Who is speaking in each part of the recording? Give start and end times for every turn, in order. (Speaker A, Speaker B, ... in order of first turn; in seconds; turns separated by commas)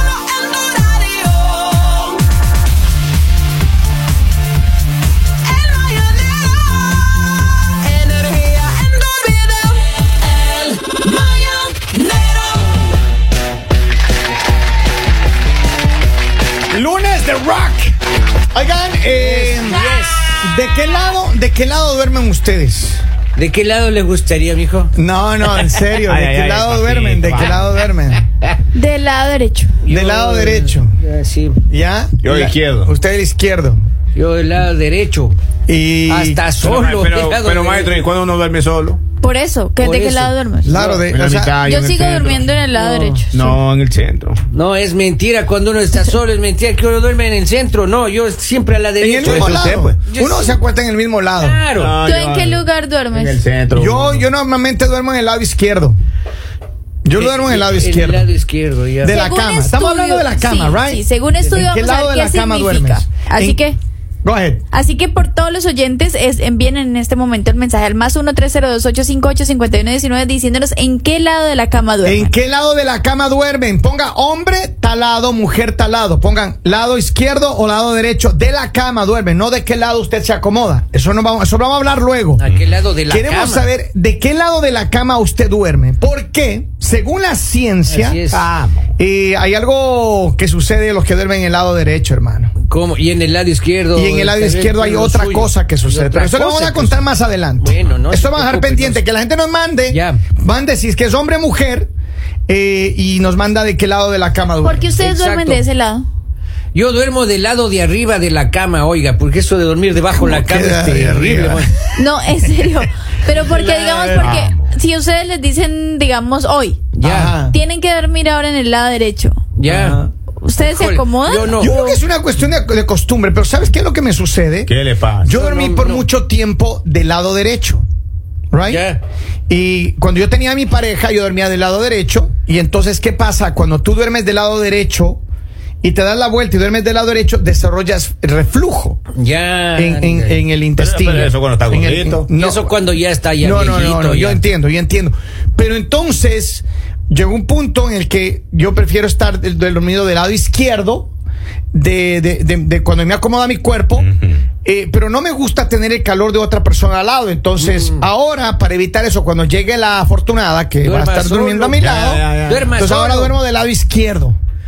Speaker A: 0.4-1.2, Speaker A: 5.7-6.3, Speaker A: 8.1-9.6, Speaker A: 10.6-12.4, Speaker B: 16.7-17.9, Speaker B: 18.5-23.0, Speaker A: 19.1-20.4, Speaker A: 23.4-24.9, Speaker B: 24.9-28.2, Speaker C: 26.0-27.6, Speaker D: 28.7-29.8, Speaker A: 29.8-31.6, Speaker B: 29.9-30.9, Speaker B: 31.7-33.8, Speaker C: 32.2-32.9, Speaker A: 34.1-35.3, Speaker B: 35.7-36.4, Speaker A: 36.1-38.0, Speaker C: 36.6-39.0, Speaker D: 39.2-40.8, Speaker A: 39.8-41.1, Speaker B: 40.6-41.6, Speaker C: 41.1-42.5, Speaker D: 41.6-43.5, Speaker A: 42.7-43.2, Speaker C: 43.3-44.4, Speaker A: 44.5-50.6, Speaker B: 49.0-51.6, Speaker C: 49.2-50.0, Speaker A: 51.4-52.0, Speaker C: 51.8-54.2, Speaker D: 52.0-53.4, Speaker B: 53.7-56.0, Speaker B: 57.0-58.3, Speaker A: 57.1-59.2, Speaker B: 59.0-63.6, Speaker D: 59.0-63.8, Speaker B: 64.2-64.6, Speaker D: 64.7-72.3, Speaker B: 72.0-82.4, Speaker A: 82.4-83.7, Speaker B: 83.1-88.2, Speaker A: 87.9-88.5, Speaker C: 88.3-88.9, Speaker B: 89.0-92.5, Speaker A: 92.6-97.0, Speaker B: 93.9-101.9, Speaker A: 97.6-99.0, Speaker A: 99.9-100.2, Speaker B: 102.5-104.8, Speaker D: 104.6-106.1, Speaker A: 105.0-105.6, Speaker A: 106.7-111.7, Speaker B: 110.1-111.9, Speaker D: 111.9-119.4, Speaker B: 113.4-114.5, Speaker C: 113.5-114.7, Speaker A: 117.0-117.3, Speaker B: 117.0-117.6, Speaker A: 119.6-120.0, Speaker B: 119.7-120.1, Speaker D: 120.4-121.9, Speaker A: 120.6-121.9, Speaker B: 121.6-124.7, Speaker C: 124.7-125.4, Speaker B: 125.2-127.8, Speaker A: 125.3-126.0, Speaker B: 128.5-128.8, Speaker A: 128.6-129.0, Speaker B: 129.5-135.2, Speaker B: 135.8-139.0, Speaker A: 139.2-140.4, Speaker B: 139.8-142.7, Speaker C: 140.8-142.3, Speaker A: 142.3-144.4, Speaker B: 143.4-151.1, Speaker B: 151.7-154.1, Speaker C: 154.1-154.4, Speaker B: 154.6-164.4, Speaker A: 157.6-158.0, Speaker A: 160.8-161.8, Speaker C: 161.7-162.8, Speaker A: 162.4-163.3